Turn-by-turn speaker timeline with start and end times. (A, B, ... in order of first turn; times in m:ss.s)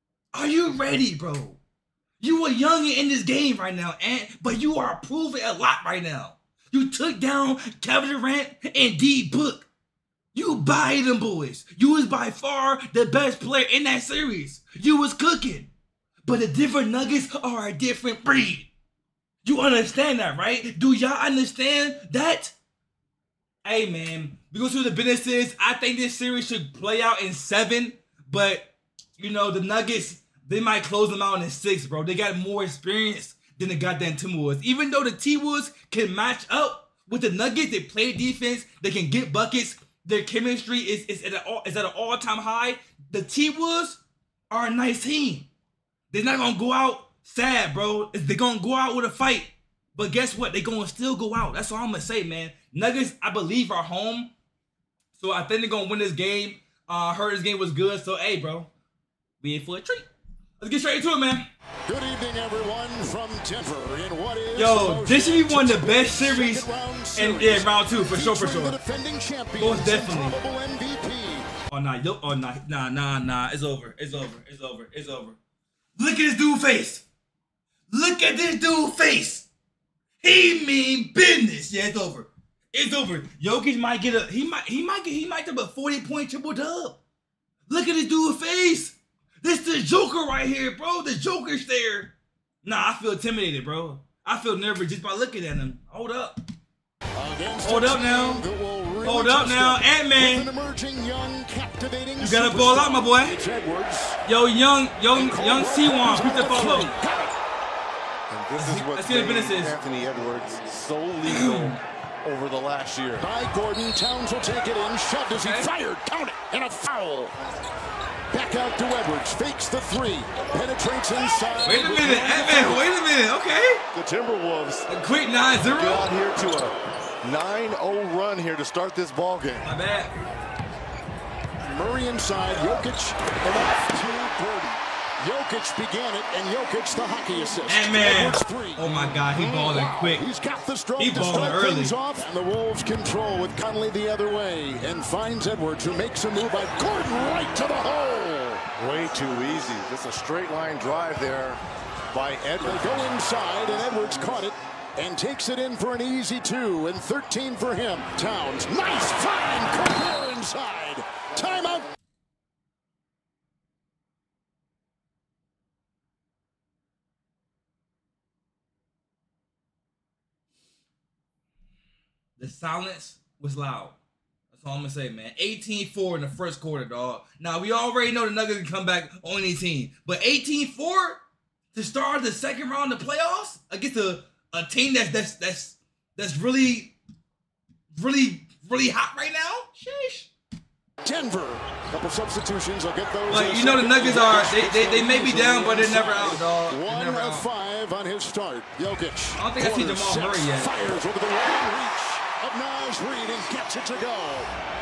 0:00.3-0:01.6 A
0:02.2-0:09.7 A
0:10.3-0:15.7 A
0:16.2-0:18.7 A
0:19.4-0:22.6 A
0:23.6-0:45.5 A
0:46.1-0:54.3 A
0:55.1-0:58.7 A
0:59.4-1:01.5 A
1:01.9-1:11.5 B
1:04.6-1:08.8 A
1:09.6-1:10.4 A
1:11.7-1:15.4 A
1:16.0-1:17.1 A
1:17.9-1:19.5 A
1:20.2-1:27.0 A
1:27.7-1:36.4 A
1:37.2-1:44.2 B
1:37.6-1:38.4 A
1:39.0-1:40.5 A
1:42.2-1:43.4 A
1:44.2-1:46.9 A
1:45.1-1:47.3 B
1:48.3-1:53.3 C
1:48.6-1:49.8 A
1:51.2-1:51.8 A
1:53.2-1:57.4 B
1:55.3-1:55.7 A
1:58.3-2:02.9 B
2:01.6-2:03.8 A
2:03.9-2:04.9 C
2:04.9-2:06.1 A
2:05.7-2:09.7 C
2:09.6-2:10.1 A
2:11.6-2:18.9 B
2:12.5-2:12.8 A
2:17.7-2:20.2 A
2:19.3-2:19.8 C
2:19.7-2:28.6 B
2:21.0-2:21.9 A
2:28.8-2:33.1 C
2:32.6-2:41.9 B
2:52.4-2:54.0 A
2:54.5-3:07.0 A
3:07.9-3:10.3 A
3:11.0-3:24.5 B
3:13.3-3:17.5 A
3:19.4-3:20.7 A